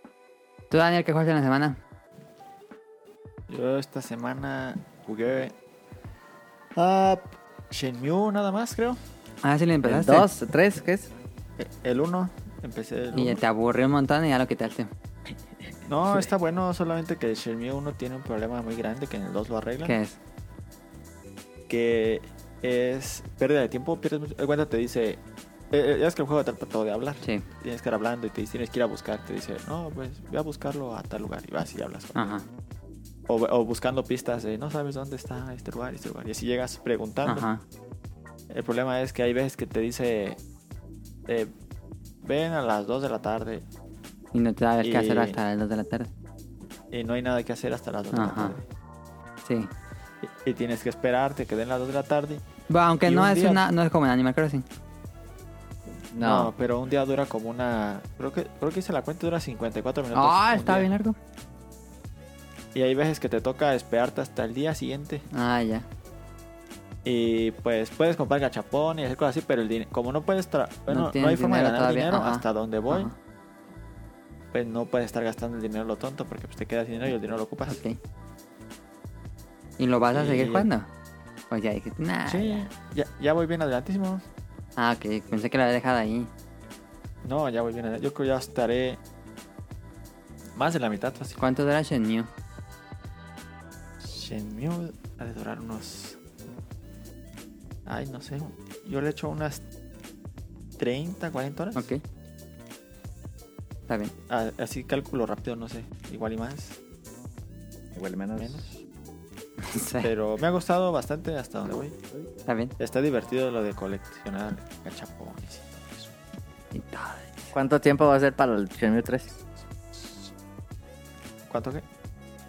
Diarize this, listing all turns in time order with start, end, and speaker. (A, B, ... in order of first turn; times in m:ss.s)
0:00.7-0:01.8 A
0:03.5-0:05.5 B
0:06.8-0:09.0 B
0:09.4-0:10.3 A
0:09.8-0:11.1 C
0:11.6-0:13.4 B
0:13.1-0:14.9 A
0:15.9-0:20.0 B
0:19.8-0:20.2 A
0:21.7-0:25.2 B
0:25.7-0:32.3 B
0:32.2-0:32.4 A
0:33.3-0:37.5 B
0:37.2-0:37.6 A
0:38.5-0:40.4 B
0:42.2-0:43.6 B
0:44.3-0:46.1 A
0:44.8-0:45.4 B
0:46.9-0:48.6 B
0:48.1-0:48.6 A
0:49.4-0:49.7 A
0:50.2-0:52.4 B
0:52.7-0:54.6 A
0:53.0-0:53.6 B
0:56.1-0:56.5 C
0:56.2-1:00.9 B
1:00.1-1:01.2 A
1:02.8-1:05.2 B
1:05.3-1:05.9 A
1:07.0-1:13.1 B
1:10.9-1:13.2 A
1:14.5-1:17.8 B
1:17.7-1:18.0 A
1:19.8-1:20.9 A
1:20.1-1:20.7 B
1:21.5-1:22.7 A
1:22.3-1:24.2 B
1:24.8-1:26.3 A
1:27.2-1:29.0 B
1:30.6-1:31.4 B
1:31.4-1:32.3 A
1:34.0-1:36.2 B
1:37.9-1:39.6 B
1:40.8-1:41.9 B
1:41.8-1:42.0 A
1:43.9-1:44.1 A
1:44.3-1:46.8 B
1:48.0-1:48.6 C
1:48.4-1:48.8 B
1:49.6-1:50.1 A
1:50.0-1:52.0 B
1:52.5-1:52.7 A
1:52.8-1:56.1 B
1:56.7-1:57.5 A
1:57.5-1:59.4 C
1:59.9-2:00.3 B
2:01.5-2:01.8 B